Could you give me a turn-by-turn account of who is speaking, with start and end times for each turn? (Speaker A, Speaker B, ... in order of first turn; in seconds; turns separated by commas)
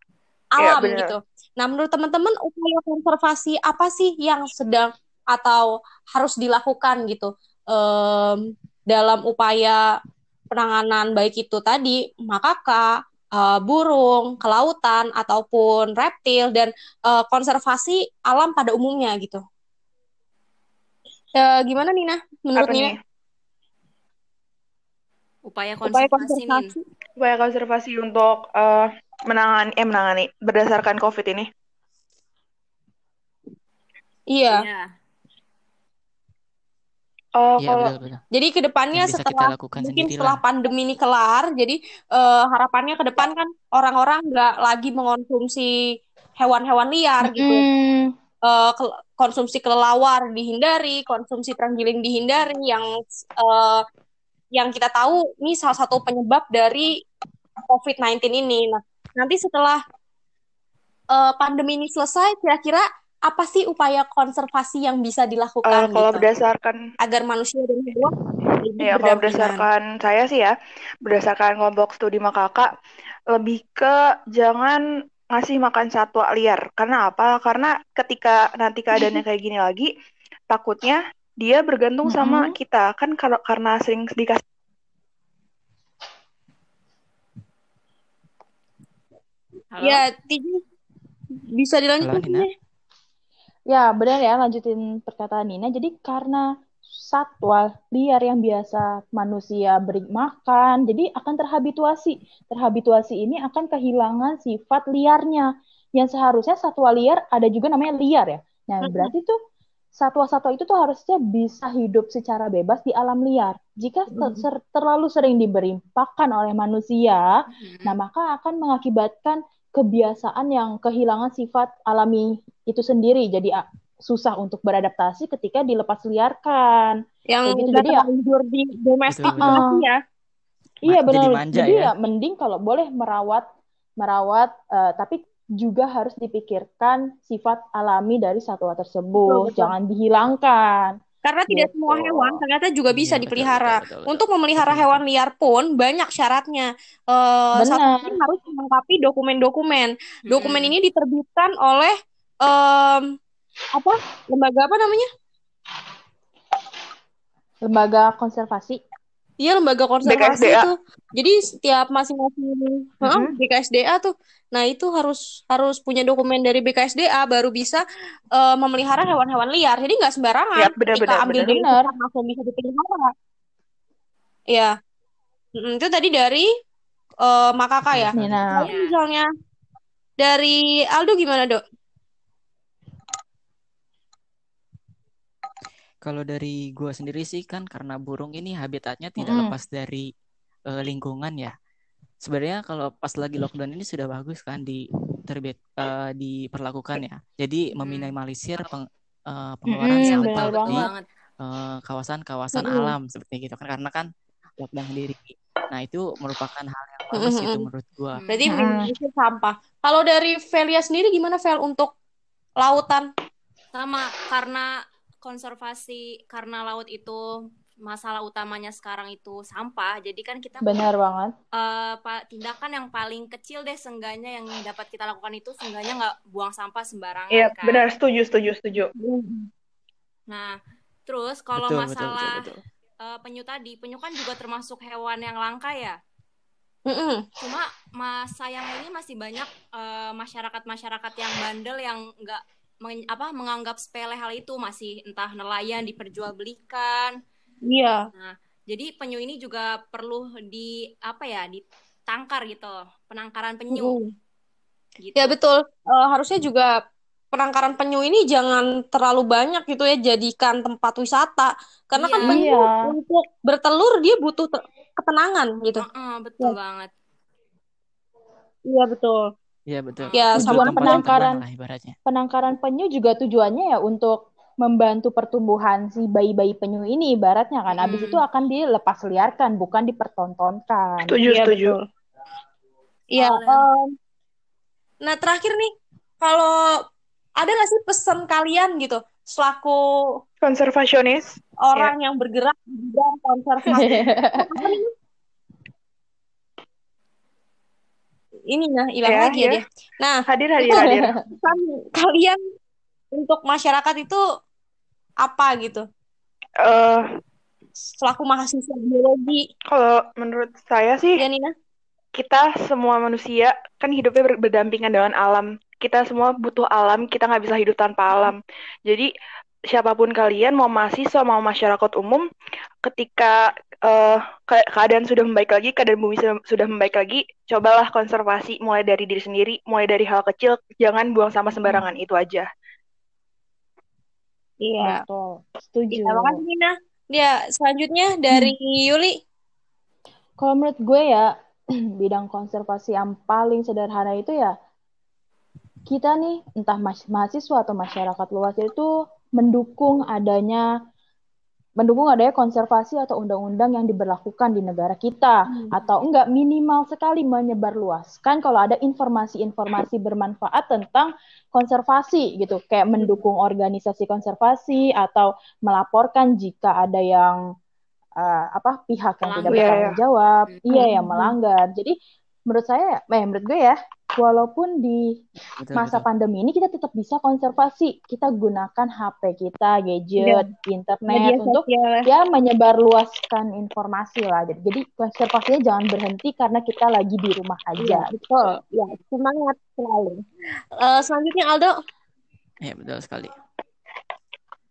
Speaker A: 0.6-1.2, Speaker B: 0.6-9.8, Speaker B: 10.5-19.4, Speaker B: 21.4-22.9, Speaker A: 22.6-23.0, Speaker C: 25.4-26.7, Speaker B: 25.8-26.8, Speaker A: 27.2-31.5, Speaker B: 34.3-34.6, Speaker C: 34.5-34.9, Speaker A: 37.4-38.0, Speaker D: 37.6-38.2, Speaker B: 38.3-45.7, Speaker D: 38.9-40.4, Speaker B: 46.4-47.6, Speaker E: 47.2-48.1, Speaker B: 48.5-53.8, Speaker B: 54.5-57.0, Speaker B: 57.7-59.8, Speaker B: 61.1-66.3, Speaker A: 65.6-66.8, Speaker B: 67.0-69.7, Speaker A: 68.8-70.5, Speaker A: 71.0-72.7, Speaker A: 73.3-74.8, Speaker A: 75.3-79.9, Speaker A: 80.5-84.4, Speaker E: 82.1-82.5, Speaker C: 89.7-90.0, Speaker B: 89.8-90.6, Speaker B: 91.5-92.5, Speaker D: 92.0-92.5, Speaker E: 93.7-109.3, Speaker B: 108.8-109.1, Speaker E: 110.0-117.3, Speaker B: 114.1-114.4, Speaker C: 117.6-118.0, Speaker E: 117.8-128.1, Speaker B: 127.3-130.0, Speaker D: 129.1-129.6, Speaker E: 129.4-129.9, Speaker D: 130.8-131.9, Speaker E: 130.8-133.4, Speaker E: 134.0-141.0, Speaker B: 139.2-139.7, Speaker B: 141.2-153.2, Speaker D: 141.9-145.0, Speaker E: 147.6-148.2, Speaker C: 150.3-150.7, Speaker B: 153.7-155.1, Speaker E: 157.6-158.8, Speaker B: 159.4-167.8, Speaker A: 160.1-160.7, Speaker E: 163.0-163.3, Speaker B: 168.3-173.1, Speaker A: 170.6-171.5, Speaker E: 171.4-171.9, Speaker B: 175.6-176.5, Speaker B: 177.2-179.3, Speaker D: 177.9-178.5, Speaker E: 178.1-178.7, Speaker C: 178.7-178.9, Speaker B: 180.2-181.6, Speaker D: 186.0-190.1, Speaker E: 189.2-189.5, Speaker D: 190.7-191.5, Speaker D: 192.2-200.9, Speaker C: 197.7-198.1, Speaker E: 199.7-200.9, Speaker C: 199.9-201.0, Speaker D: 201.4-204.1, Speaker B: 202.6-202.9, Speaker D: 204.6-208.2, Speaker B: 207.1-207.7, Speaker C: 208.2-208.6, Speaker B: 208.3-211.9, Speaker E: 208.5-208.9, Speaker B: 212.6-213.1, Speaker C: 213.7-214.7, Speaker C: 215.2-217.3, Speaker C: 217.8-220.7, Speaker E: 220.6-221.3, Speaker C: 221.6-227.9, Speaker A: 227.3-228.9, Speaker B: 229.0-229.5, Speaker C: 230.3-232.4, Speaker D: 231.6-232.6, Speaker C: 233.0-236.0, Speaker B: 236.9-237.2, Speaker C: 237.4-247.2, Speaker B: 247.7-248.0, Speaker C: 248.1-254.0, Speaker B: 253.7-254.1, Speaker C: 255.0-255.3, Speaker B: 255.2-256.7, Speaker B: 257.3-265.8, Speaker C: 261.9-262.4, Speaker E: 262.2-262.8, Speaker C: 265.8-266.9, Speaker B: 268.7-269.2, Speaker D: 269.7-271.9, Speaker C: 270.0-270.3, Speaker B: 270.1-271.2, Speaker E: 270.3-271.4, Speaker E: 272.1-281.2, Speaker C: 277.7-278.2, Speaker A: 281.0-281.8, Speaker B: 281.2-281.8, Speaker B: 283.1-283.9, Speaker C: 283.2-283.6, Speaker B: 285.0-285.7, Speaker B: 286.2-286.6, Speaker B: 287.4-290.2, Speaker A: 290.4-291.9, Speaker B: 291.6-294.9, Speaker E: 293.8-294.7, Speaker B: 298.5-302.4, Speaker A: 299.0-299.6, Speaker A: 300.3-301.1, Speaker E: 300.8-301.1, Speaker B: 303.1-304.2, Speaker B: 305.2-305.9, Speaker A: 306.6-307.0, Speaker B: 307.9-309.4, Speaker A: 309.7-311.2, Speaker B: 311.1-311.5, Speaker A: 312.1-319.1, Speaker A: 319.7-322.2, Speaker A: 322.8-332.5, Speaker B: 334.6-335.0, Speaker E: 334.8-336.4, Speaker B: 335.9-339.2, Speaker E: 340.4-341.3, Speaker E: 342.0-344.5, Speaker E: 345.9-350.7, Speaker E: 351.8-367.4, Speaker E: 368.2-371.9, Speaker C: 369.2-369.7, Speaker A: 369.4-370.0, Speaker B: 370.7-371.3, Speaker E: 372.5-375.1, Speaker D: 375.6-376.1, Speaker E: 375.7-388.1, Speaker B: 380.2-380.5, Speaker B: 381.1-382.1, Speaker B: 387.8-390.2, Speaker B: 390.8-391.7, Speaker D: 392.6-393.3